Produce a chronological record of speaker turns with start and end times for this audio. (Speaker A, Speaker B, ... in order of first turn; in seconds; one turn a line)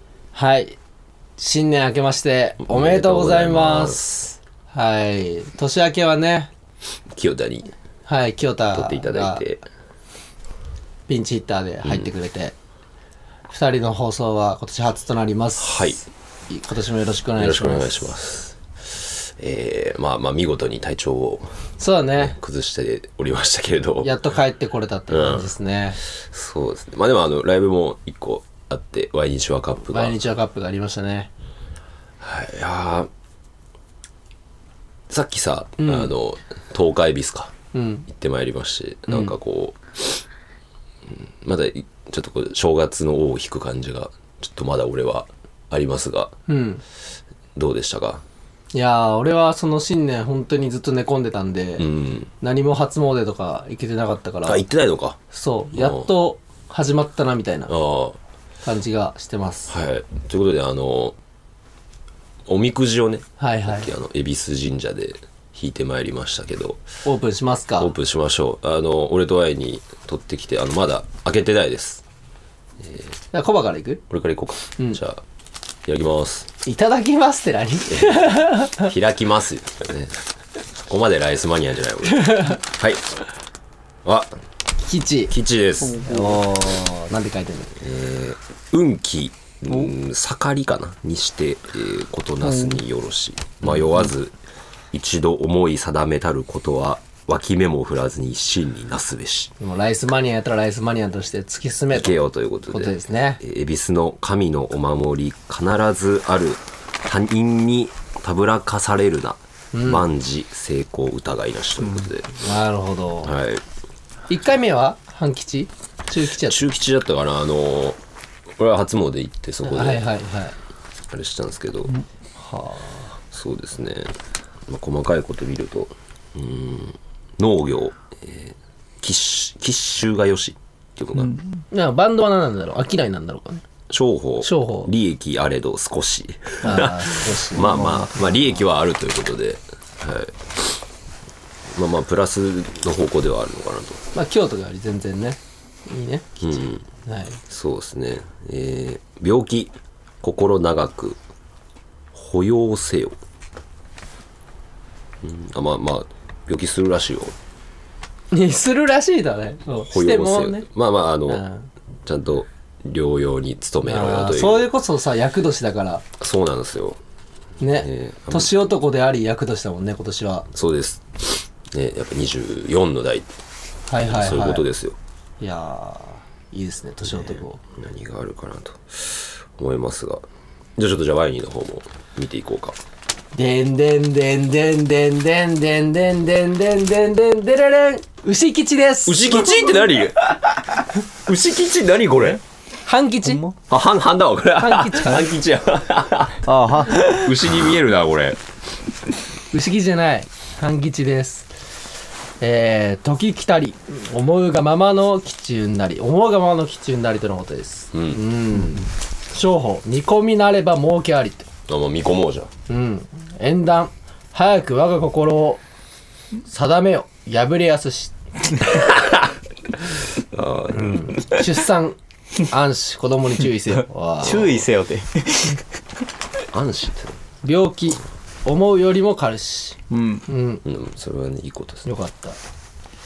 Speaker A: 0.3-0.8
Speaker A: 1.4-6.5
Speaker B: 2.6-4.2
Speaker B: 7.1-7.7
Speaker A: 8.1-9.4
Speaker B: 8.7-9.6
Speaker A: 11.1-12.6
Speaker B: 11.8-12.1
Speaker A: 13.5-15.9
Speaker B: 15.6-16.0
Speaker A: 16.5-18.0
Speaker B: 17.4-21.6
Speaker A: 21.8-22.4
Speaker B: 22.1-24.1
Speaker A: 24.0-26.0
Speaker B: 25.1-30.2
Speaker A: 29.9-31.3
Speaker B: 32.2-33.1
Speaker B: 35.1-37.5
Speaker A: 35.8-36.1
Speaker A: 37.7-38.1
Speaker B: 38.1-40.2
Speaker B: 41.1-46.3
Speaker A: 46.5-46.8
Speaker B: 47.5-48.2
Speaker A: 48.7-54.6
Speaker B: 51.8-52.3
Speaker B: 54.4-55.2
Speaker A: 55.3-57.7
Speaker B: 55.7-56.1
Speaker B: 57.7-58.2
Speaker A: 58.6-59.7
Speaker B: 59.7-61.1
Speaker B: 62.5-66.8
Speaker A: 63.4-63.9
Speaker A: 67.0-67.9
Speaker B: 67.8-72.0
Speaker B: 72.8-73.1
Speaker A: 73.3-74.0
Speaker B: 74.1-75.2
Speaker B: 75.8-76.5
Speaker A: 76.6-78.9
Speaker B: 77.9-80.2
Speaker B: 80.9-83.0
Speaker A: 82.1-82.6
Speaker B: 84.0-84.3
Speaker A: 84.8-85.3
Speaker B: 85.3-86.0
Speaker C: 85.8-86.4
Speaker A: 86.0-87.7
Speaker B: 87.8-94.3
Speaker B: 94.9-99.5
Speaker A: 99.6-102.2
Speaker B: 101.9-112.3
Speaker A: 102.7-103.4
Speaker A: 109.7-110.0
Speaker A: 112.3-113.3
Speaker B: 113.2-113.6
Speaker A: 114.3-116.6
Speaker B: 116.4-118.0
Speaker B: 118.5-120.0
Speaker A: 119.6-120.5
Speaker B: 121.1-121.9
Speaker A: 122.3-123.1
Speaker B: 123.3-124.1
Speaker B: 124.7-131.4
Speaker A: 131.7-133.6
Speaker B: 133.9-140.8
Speaker A: 134.4-134.9
Speaker A: 136.6-138.4
Speaker B: 141.7-144.0
Speaker A: 144.1-147.4
Speaker B: 146.4-146.8
Speaker B: 147.5-151.2
Speaker B: 152.1-153.2
Speaker B: 155.2-157.3
Speaker A: 158.3-160.7
Speaker B: 159.7-161.4
Speaker A: 161.2-161.7
Speaker B: 162.0-164.7
Speaker A: 163.8-166.0
Speaker B: 166.2-167.0
Speaker A: 167.6-170.5
Speaker B: 167.8-168.5
Speaker B: 170.5-173.3
Speaker A: 173.9-174.7
Speaker B: 174.0-175.0
Speaker A: 175.4-177.6
Speaker B: 177.1-180.2
Speaker B: 180.8-182.8
Speaker A: 183.3-189.8
Speaker B: 189.1-192.4
Speaker A: 192.8-193.4
Speaker C: 193.2-193.5
Speaker B: 193.7-198.4
Speaker A: 194.6-195.3
Speaker C: 196.4-197.5
Speaker A: 199.5-201.5
Speaker A: 202.4-211.5
Speaker B: 207.9-208.2
Speaker B: 211.7-212.5
Speaker A: 212.7-215.6
Speaker A: 216.5-218.1
Speaker B: 218.6-221.4
Speaker A: 220.7-224.6
Speaker C: 224.2-225.6
Speaker B: 226.5-227.2
Speaker A: 227.4-230.6
Speaker C: 229.9-230.2
Speaker B: 230.6-231.8
Speaker A: 231.8-232.4